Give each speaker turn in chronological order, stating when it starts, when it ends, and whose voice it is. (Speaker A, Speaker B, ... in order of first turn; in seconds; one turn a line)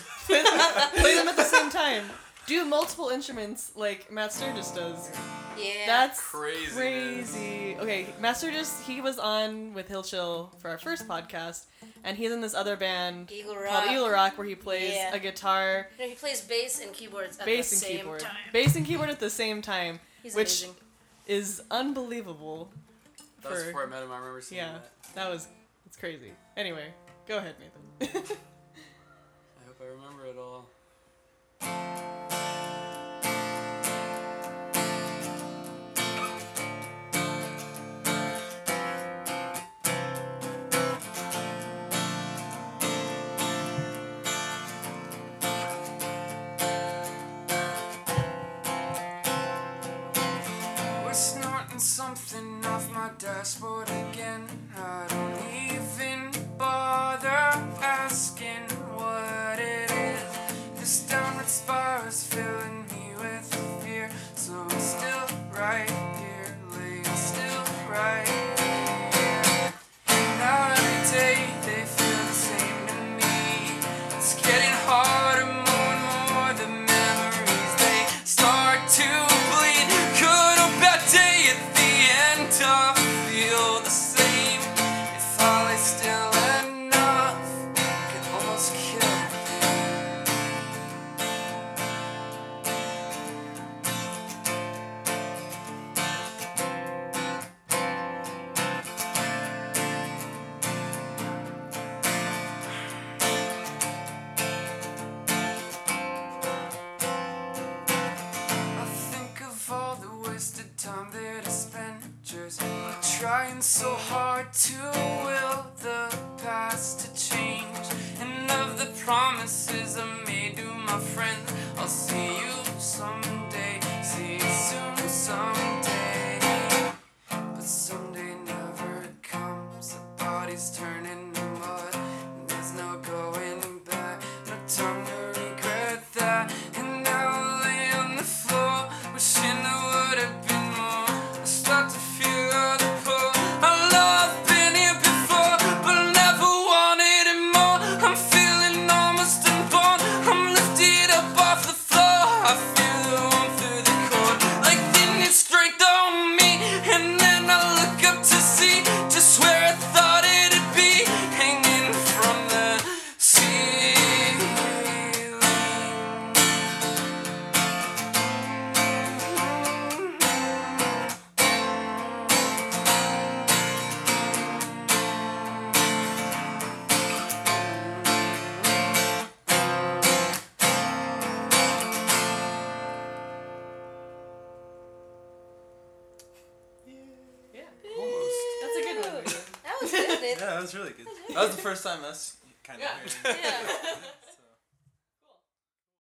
Speaker A: 0.2-5.3
Speaker B: 0.5-1.2
Speaker B: 5.5-6.1
Speaker A: 5.8-15.9
Speaker C: 6.1-7.4
Speaker B: 13.3-15.2
Speaker B: 15.9-18.6
Speaker A: 17.4-20.7
Speaker B: 20.2-20.8
Speaker A: 21.3-22.8
Speaker C: 23.4-24.9
Speaker A: 23.4-24.0
Speaker A: 24.5-28.4
Speaker C: 29.6-30.7
Speaker D: 50.9-90.1
Speaker D: 108.7-126.9
Speaker D: 127.5-166.3
Speaker E: 186.9-187.5
Speaker A: 187.5-187.8
Speaker B: 187.8-191.6
Speaker C: 187.9-188.6
Speaker A: 188.6-190.2
Speaker E: 190.2-194.6
Speaker C: 193.0-193.9
Speaker B: 193.2-194.1